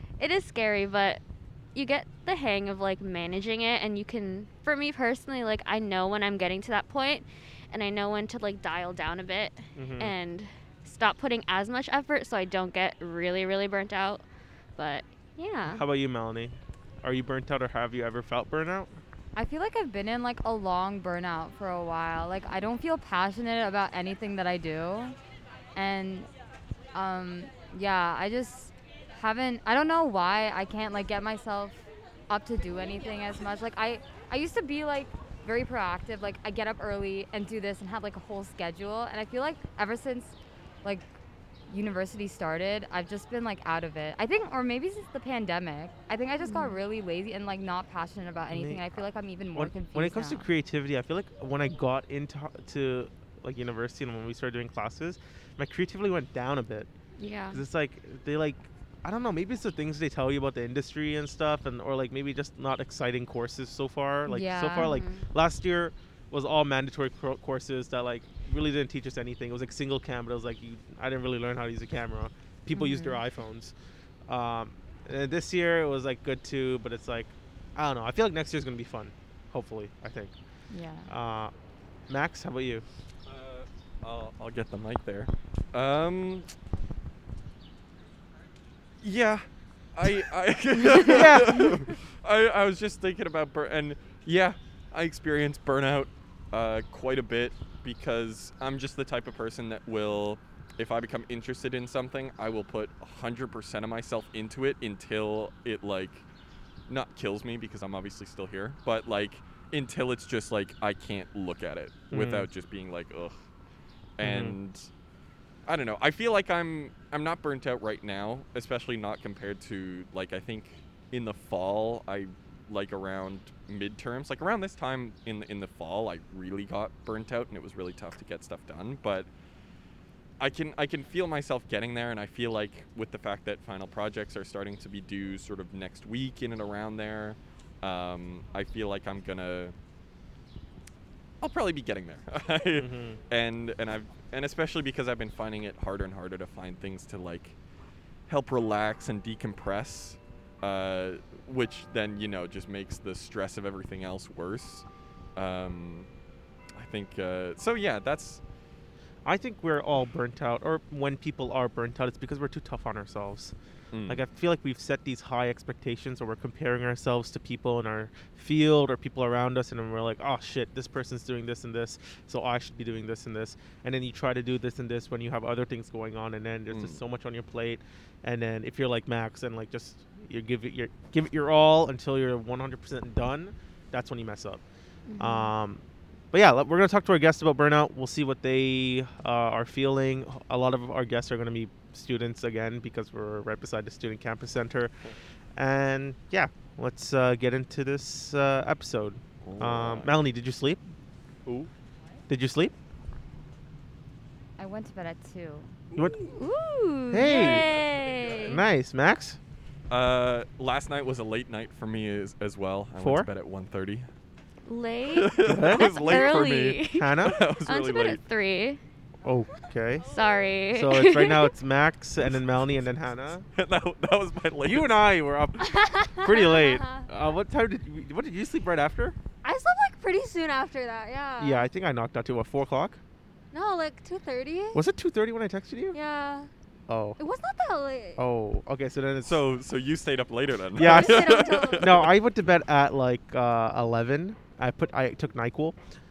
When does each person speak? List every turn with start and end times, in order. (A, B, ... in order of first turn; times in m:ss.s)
0:00.2-0:01.2 A
0:01.7-0:14.2 A
0:09.8-0:10.1 B
0:14.8-0:15.8 A
0:15.6-0:18.9 B
0:19.3-0:25.2 C
0:25.7-0:26.3 C
0:26.9-0:41.0 C
0:41.7-0:50.5 C
0:48.5-0:48.8 B
0:49.5-0:56.9 B
0:57.2-0:57.6 A
0:57.5-1:13.7 B
1:04.3-1:05.2 A
1:04.4-1:04.9 C
1:12.8-1:13.1 A
1:14.3-1:20.3 B
1:20.7-1:21.1 C
1:21.1-1:21.5 B
1:22.1-1:22.8 B
1:23.3-1:26.5 D
1:29.0-1:46.2 D
1:31.0-1:31.9 B
1:46.9-1:53.4 D
1:52.1-1:52.5 B
1:54.2-1:54.9 D
1:54.2-1:54.6 B
1:55.6-2:09.3 D
2:10.4-2:19.7 D
2:21.4-2:27.6 D
2:22.7-2:23.2 B
2:28.3-2:36.1 D
2:36.7-2:38.4 D
2:39.2-2:43.5 B
2:43.9-2:44.2 D
2:44.1-3:04.6 B
2:56.7-2:57.0 D
3:05.1-3:05.5 A
3:05.2-3:14.9 B
3:15.6-3:20.8 B
3:19.4-3:20.1 D
3:22.3-3:22.7 B
3:24.6-3:25.7 C
3:26.2-3:28.6 A
3:27.1-3:27.7 B
3:27.2-3:28.4 D
3:28.4-3:29.4 B
3:29.9-3:34.1 D
3:33.0-3:33.3 B
3:34.7-3:38.8 A
3:35.1-3:38.2 D
3:35.4-3:37.4 B
3:39.2-3:40.1 B
3:40.0-3:41.5 A
3:40.7-3:43.5 B
3:43.6-3:45.0 D
3:44.6-3:49.2 B
3:45.8-3:47.0 E
3:49.4-3:51.7 E
3:51.4-3:53.0 B
3:53.5-3:54.8 E
3:54.7-3:56.0 B
3:55.9-3:56.5 E
3:56.9-3:57.2 B
3:57.2-3:58.2 E
3:58.2-3:59.4 B
3:59.2-4:02.1 D
4:00.8-4:05.8 B
4:00.8-4:01.9 E